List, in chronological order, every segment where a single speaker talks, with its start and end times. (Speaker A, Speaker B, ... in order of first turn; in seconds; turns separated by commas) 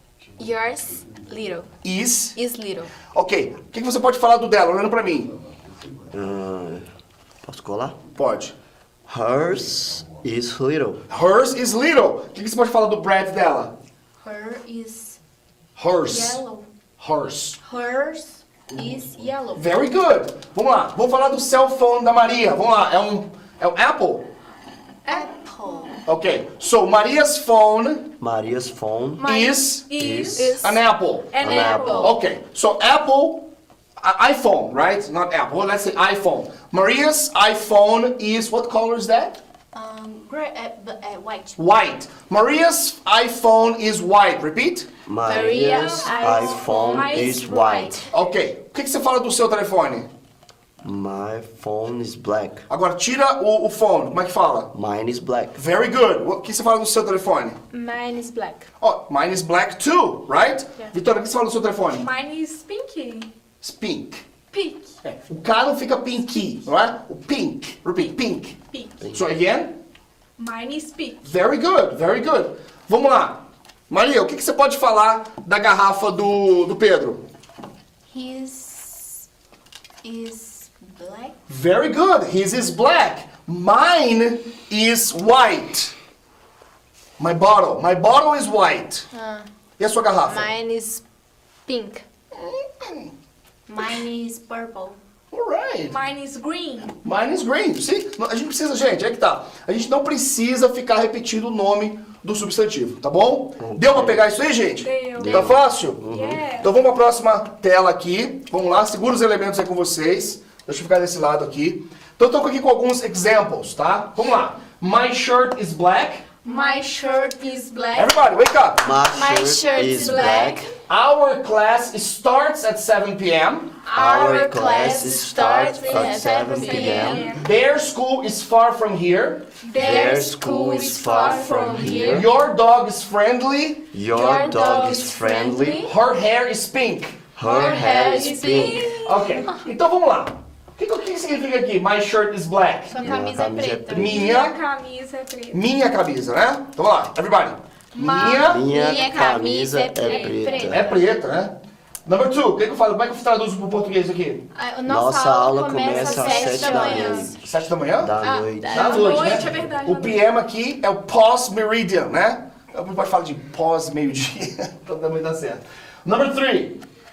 Speaker A: 0.4-1.7, Speaker B: 1.8-2.4, Speaker A: 2.4-3.0, Speaker B: 3.0-5.3, Speaker C: 6.1-6.8, Speaker C: 7.4-8.0, Speaker B: 8.1-8.5, Speaker C: 9.1-11.0, Speaker B: 11.1-13.7, Speaker D: 14.2-15.2, Speaker B: 15.8-16.4, Speaker D: 16.0-16.7, Speaker B: 17.0-17.6, Speaker D: 17.6-19.7, Speaker B: 19.5-24.3, Speaker D: 25.1-26.0, Speaker B: 26.1-28.1, Speaker C: 28.2-29.3, Speaker E: 29.2-30.6, Speaker B: 29.2-33.5, Speaker C: 30.0-30.6, Speaker A: 30.4-30.8, Speaker E: 31.3-32.2, Speaker C: 31.4-32.2, Speaker A: 31.5-32.0, Speaker B: 34.0-39.4, Speaker D: 39.7-41.6, Speaker B: 41.6-44.9, Speaker C: 45.1-48.0, Speaker A: 45.3-47.4, Speaker D: 45.3-46.9, Speaker E: 45.4-48.1, Speaker B: 48.1-50.1, Speaker C: 50.8-52.6, Speaker B: 52.7-54.7, Speaker C: 54.7-55.6, Speaker B: 55.6-57.6, Speaker A: 57.7-58.7, Speaker B: 58.8-62.1, Speaker E: 62.0-63.3, Speaker B: 63.6-64.2, Speaker B: 65.0-69.8, Speaker E: 68.7-69.1, Speaker E: 70.4-71.2, Speaker B: 71.2-77.2, Speaker D: 78.1-79.3, Speaker D: 80.0-81.3, Speaker B: 81.5-85.9, Speaker B: 87.2-89.1, Speaker A: 89.1-89.5, Speaker B: 89.8-90.5, Speaker A: 90.3-91.0, Speaker A: 91.7-92.0, Speaker B: 92.3-93.1, Speaker D: 93.7-95.0, Speaker B: 95.3-96.0, Speaker E: 95.9-97.0, Speaker B: 97.0-106.1, Speaker C: 103.6-104.3, Speaker E: 104.8-106.7, Speaker C: 105.2-106.5, Speaker B: 106.6-116.3, Speaker E: 116.5-118.1, Speaker D: 116.5-118.3, Speaker B: 118.0-118.9, Speaker C: 118.8-120.7, Speaker D: 119.1-120.7, Speaker A: 119.2-120.5, Speaker E: 119.8-120.5, Speaker B: 120.9-123.8, Speaker D: 123.9-127.4, Speaker C: 123.9-127.4, Speaker A: 124.0-127.3, Speaker E: 126.6-127.5, Speaker B: 127.3-129.6, Speaker E: 129.6-132.3, Speaker C: 129.8-132.3, Speaker D: 129.9-130.2, Speaker B: 131.8-133.9, Speaker C: 133.9-135.9, Speaker A: 134.1-135.8, Speaker D: 134.2-135.7, Speaker B: 135.8-137.3, Speaker C: 137.4-138.9, Speaker E: 137.4-139.5, Speaker D: 137.5-138.9, Speaker A: 137.7-138.7, Speaker B: 139.0-143.1, Speaker D: 142.9-144.2, Speaker C: 143.0-144.2, Speaker B: 143.9-144.6, Speaker E: 143.9-145.6, Speaker B: 145.5-148.7, Speaker E: 148.0-148.6, Speaker D: 148.1-151.1, Speaker C: 148.2-151.0, Speaker A: 148.6-150.8, Speaker B: 150.6-151.6, Speaker B: 152.1-154.4, Speaker D: 154.5-157.4, Speaker C: 154.9-157.4, Speaker E: 155.9-157.3, Speaker A: 156.1-157.2, Speaker B: 157.4-158.2, Speaker C: 158.0-159.4, Speaker A: 158.2-159.4, Speaker B: 158.7-166.8, Speaker E: 158.7-160.3